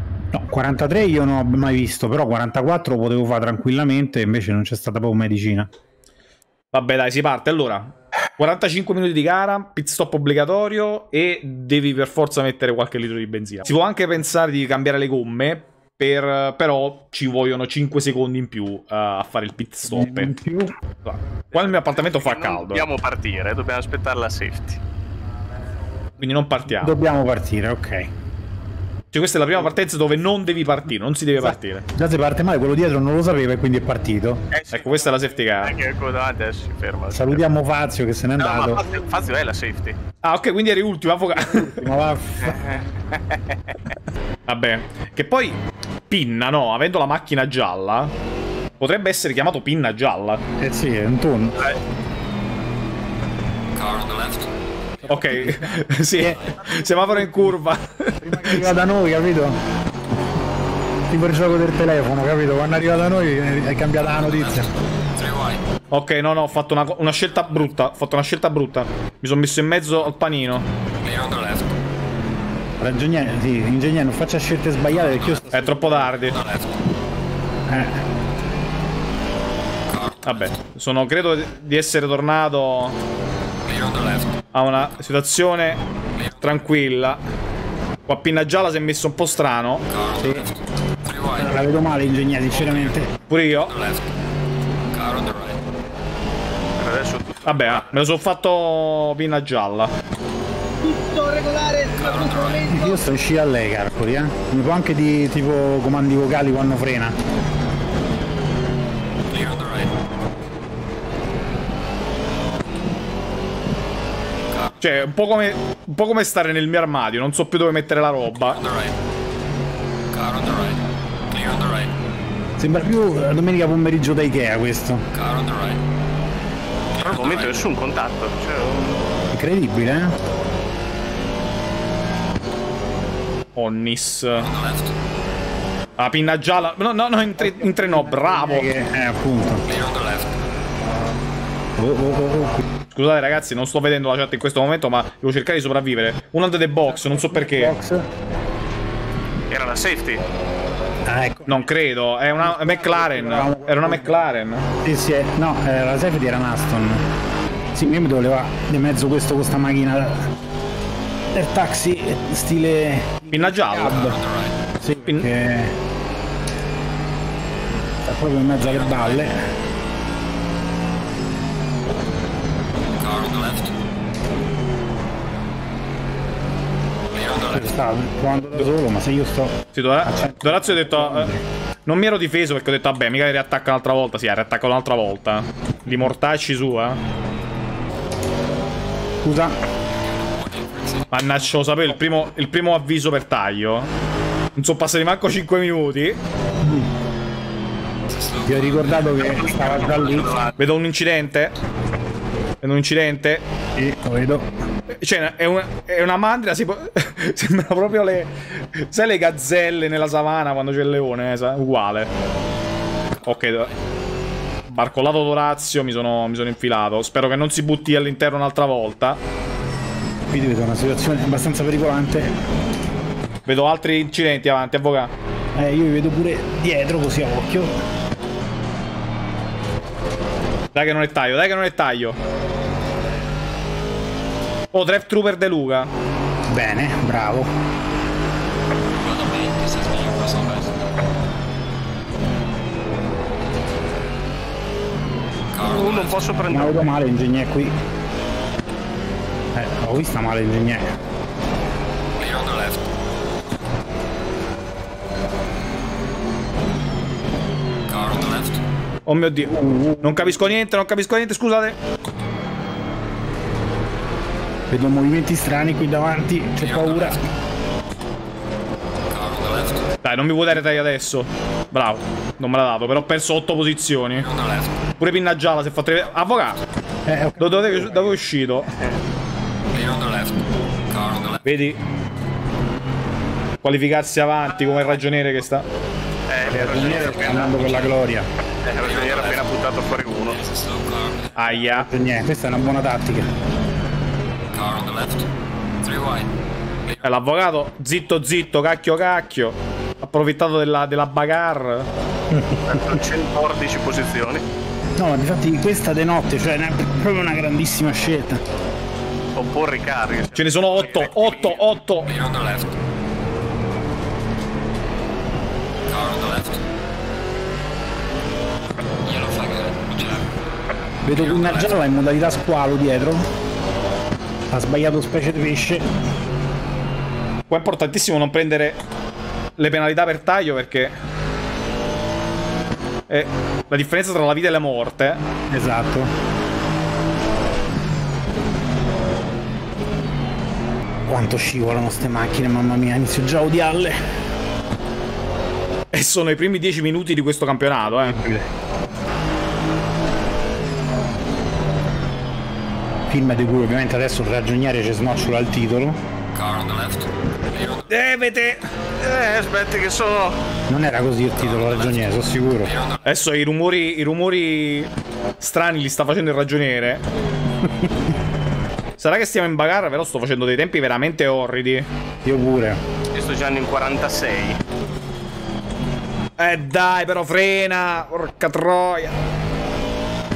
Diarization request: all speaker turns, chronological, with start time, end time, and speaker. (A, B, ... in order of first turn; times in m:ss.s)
0:00.3-0:05.7 A
0:06.7-0:20.3 B
0:19.9-0:20.7 A
0:21.0-0:22.9 B
0:21.6-0:24.8 C
0:26.2-0:27.0 B
0:26.7-0:28.1 A
0:29.1-0:31.8 B
0:31.4-0:34.4 A
0:34.5-0:34.8 C
0:34.7-0:35.8 B
0:35.6-0:37.4 C
0:37.1-0:38.8 A
0:38.4-0:40.0 C
0:40.2-0:41.8 B
0:41.4-0:42.6 A
0:42.4-0:43.6 C
0:44.5-0:45.6 B
0:46.1-0:48.1 B
0:48.8-0:50.4 B
0:50.6-0:51.7 A
0:53.8-0:54.5 D
0:55.1-0:58.8 B
0:55.1-0:57.5 A
0:58.2-0:59.6 A
1:01.1-1:04.7 A
1:05.2-1:05.6 D
1:05.9-1:10.7 B
1:11.0-1:11.7 D
1:12.8-1:15.6 A
1:15.5-1:16.4 B
1:17.7-1:18.0 A
1:20.2-1:23.0 B
1:23.7-1:24.1 D
1:24.5-1:25.8 B
1:26.4-1:27.2 B
1:28.1-1:29.9 B
1:30.2-1:30.5 A
1:31.2-1:33.1 A
1:33.3-1:33.8 B
1:35.0-1:35.5 D
1:36.8-1:37.8 C
1:37.4-1:39.9 B
1:40.8-1:42.8 E
1:42.7-1:47.2 A
1:49.3-1:49.8 D
1:54.8-1:58.6 B
2:00.1-2:00.8 D
2:01.3-2:01.9 D
2:02.6-2:05.1 A
2:05.2-2:05.8 D
2:07.0-2:09.0 C
2:09.3-2:10.2 A
2:13.6-2:14.5 B
2:14.6-2:14.9 D
2:16.0-2:18.7 B
2:17.4-2:19.9 A
2:19.9-2:20.3 D
2:21.8-2:22.6 A
2:22.9-2:27.8 B
2:26.9-2:28.1 A
2:29.5-2:30.2 C
2:31.1-2:31.7 A
2:31.5-2:34.7 B
2:32.3-2:37.0 A
2:37.7-2:40.3 A
2:41.3-2:44.3 A
2:43.3-2:44.2 B
2:44.8-2:45.8 A
2:48.0-2:49.4 A
2:53.0-2:53.7 D
2:57.4-3:01.4 A
2:59.7-3:01.3 B
3:01.9-3:07.0 B
3:09.2-3:09.6 A
3:10.0-3:10.9 D
3:11.1-3:13.9 B
3:14.6-3:16.2 B
3:16.6-3:16.9 A
3:18.1-3:19.1 D
3:18.4-3:20.4 A
3:19.3-3:20.5 C
3:20.6-3:21.5 B
3:22.6-3:23.4 B
3:23.8-3:24.5 A
3:25.0-3:32.1 B
3:33.2-3:33.7 B
3:34.7-3:39.2 B
3:40.3-3:42.3 A
3:43.5-3:45.1 B
3:45.6-3:47.8 A
3:50.8-3:52.2 B
3:54.7-3:55.9 B
3:56.5-3:57.5 A
3:59.0-4:00.7 D
4:05.6-4:06.8 C
4:06.5-4:07.8 A
4:09.6-4:10.9 A
4:12.2-4:12.8 D
4:17.9-4:18.5 D
4:19.1-4:21.8 B
4:19.4-4:20.4 A
4:24.7-4:27.3 A
4:29.1-4:29.6 D
4:30.0-4:34.3 B
4:35.0-4:36.6 B
4:37.1-4:38.2 A
4:37.4-4:38.7 B
4:39.8-4:40.2 D
4:41.4-4:41.8 B
4:43.6-4:45.7 B
4:46.3-4:47.7 C
4:46.5-4:48.3 A
4:48.6-4:50.5 C
4:50.5-4:51.2 D
4:51.4-4:51.9 B
4:51.6-4:53.3 A
4:54.6-4:55.2 D
4:55.8-4:56.3 D
4:57.0-5:01.9 B
5:02.3-5:03.0 A
5:02.7-5:04.4 C
5:05.0-5:08.4 A
5:09.4-5:11.6 C
5:10.4-5:12.2 B
5:12.2-5:12.7 D
5:15.9-5:16.6 D
5:19.0-5:20.3 D
5:21.0-5:23.3 A
5:24.5-5:25.9 A
5:27.5-5:28.8 B
5:29.6-5:31.0 B
5:33.1-5:35.2 B
5:35.5-5:36.1 A
5:41.1-5:44.0 A
5:45.9-5:48.2 B
5:47.9-5:48.5 A
5:53.1-5:56.0 A
5:56.4-5:57.0 D
5:57.8-5:58.6 B
5:59.0-6:00.4 C
6:00.7-6:02.8 A
6:03.0-6:07.0 B
6:09.0-6:11.9 B
6:12.2-6:12.8 A
6:13.1-6:14.6 C
6:16.4-6:19.1 B